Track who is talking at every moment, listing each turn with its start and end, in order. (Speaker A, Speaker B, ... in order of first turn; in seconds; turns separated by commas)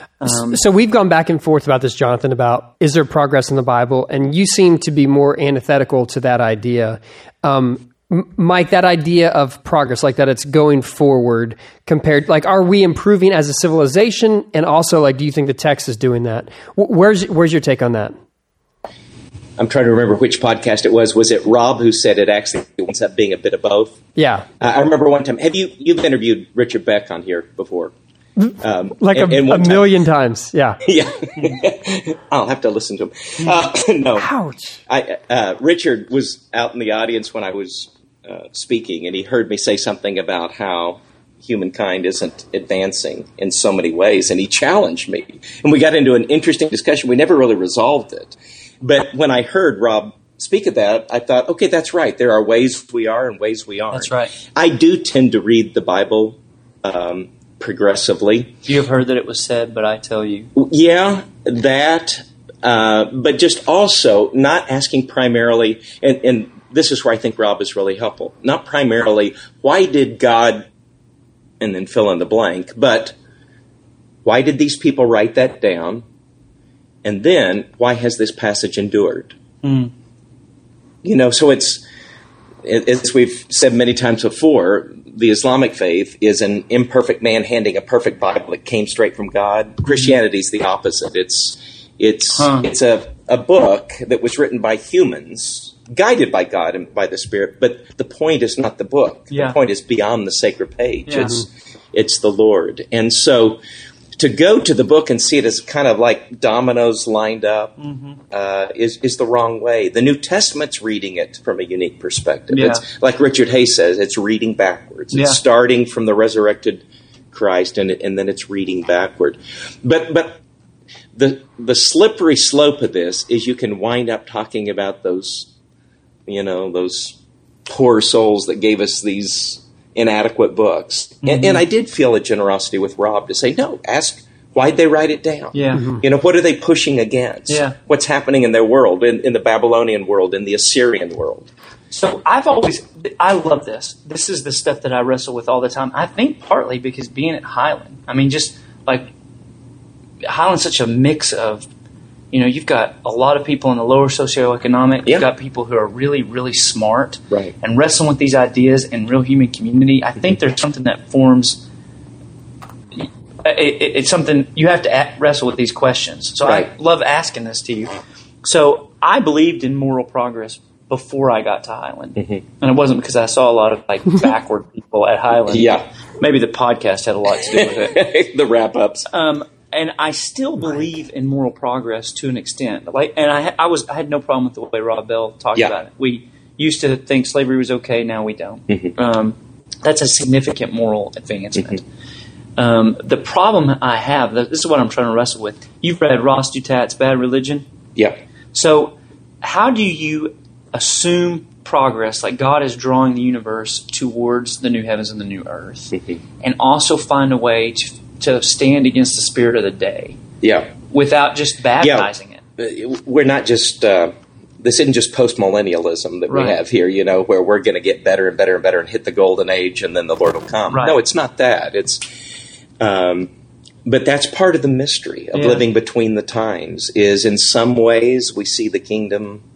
Speaker A: 0.2-0.6, Speaker B: 0.2-18.1, Speaker C: 19.6-24.0, Speaker B: 24.1-24.5, Speaker C: 24.6-27.9, Speaker B: 28.4-30.8, Speaker C: 28.6-29.9, Speaker C: 30.8-34.3, Speaker B: 34.2-34.8, Speaker C: 34.9-58.5, Speaker A: 53.9-54.3, Speaker A: 58.6-60.5, Speaker C: 60.5-70.7, Speaker C: 71.6-73.2, Speaker C: 74.2-76.0, Speaker C: 77.0-79.3, Speaker A: 79.6-79.9, Speaker C: 81.0-81.8, Speaker C: 82.6-103.6, Speaker A: 89.8-90.1, Speaker A: 92.3-92.7, Speaker A: 99.3-99.6, Speaker A: 101.1-101.4, Speaker C: 104.2-107.7, Speaker A: 107.8-108.2, Speaker C: 108.3-120.4, Speaker A: 112.5-112.8, Speaker A: 115.1-115.4, Speaker C: 121.1-125.5, Speaker C: 126.2-141.5, Speaker A: 131.2-131.6, Speaker A: 135.5-135.9, Speaker A: 137.5-137.8, Speaker A: 141.9-149.1, Speaker A: 150.2-151.7, Speaker A: 152.3-161.6, Speaker A: 162.9-178.1, Speaker C: 166.4-166.7, Speaker C: 175.5-175.8, Speaker C: 177.5-179.1, Speaker A: 179.1-191.8, Speaker A: 192.6-197.7, Speaker A: 198.5-210.2, Speaker C: 210.4-210.7, Speaker A: 210.8-212.4, Speaker C: 211.8-222.0, Speaker A: 216.3-216.6, Speaker A: 220.7-221.0, Speaker C: 222.8-223.3, Speaker C: 223.8-229.4, Speaker A: 225.3-225.6